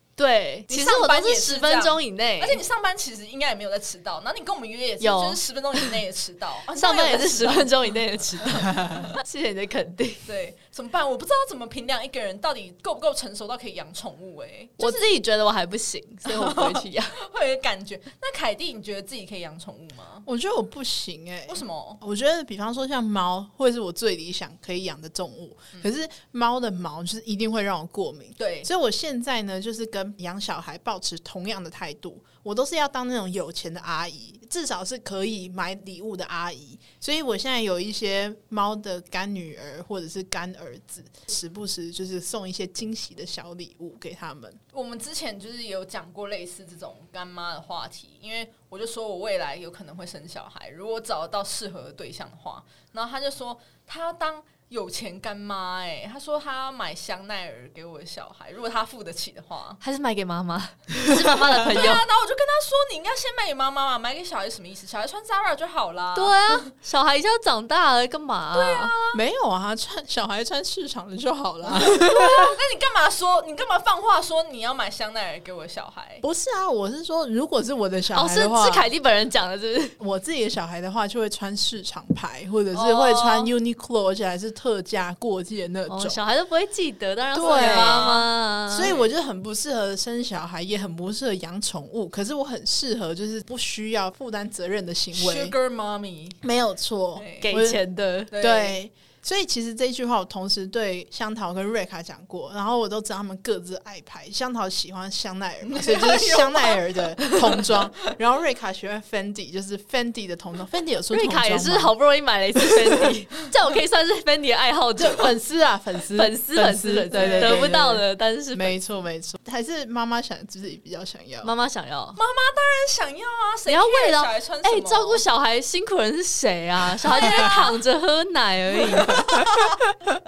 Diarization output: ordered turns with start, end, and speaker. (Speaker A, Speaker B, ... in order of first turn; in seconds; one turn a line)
Speaker A: 0.2-2.6
Speaker B: 0.7-9.2
Speaker A: 5.0-5.8
Speaker A: 6.7-10.2
Speaker B: 10.2-15.1
Speaker A: 14.8-17.2
Speaker B: 16.3-20.2
Speaker C: 20.2-44.6
Speaker B: 21.5-22.0
Speaker B: 28.4-28.7
Speaker B: 44.7-59.8
Speaker A: 59.8-62.0
Speaker B: 61.6-66.7
Speaker A: 66.1-68.9
Speaker B: 68.5-69.2
Speaker C: 69.1-72.6
Speaker B: 71.7-76.2
Speaker C: 76.2-78.9
Speaker A: 78.1-80.0
Speaker C: 80.0-86.2
Speaker B: 82.7-83.5
Speaker A: 85.9-88.9
Speaker C: 87.3-95.5
Speaker B: 87.4-89.1
Speaker B: 95.1-96.4
Speaker C: 96.4-97.8
Speaker B: 97.1-97.6
Speaker A: 97.4-98.3
Speaker B: 98.3-98.8
Speaker C: 98.3-111.9
Speaker B: 105.6-107.8
Speaker A: 111.1-115.3
Speaker C: 115.0-121.5
Speaker A: 116.1-118.8
Speaker B: 117.1-117.8
Speaker A: 121.4-122.2
Speaker B: 122.2-125.2
Speaker A: 123.7-129.5
Speaker B: 127.0-127.8
Speaker B: 128.9-129.8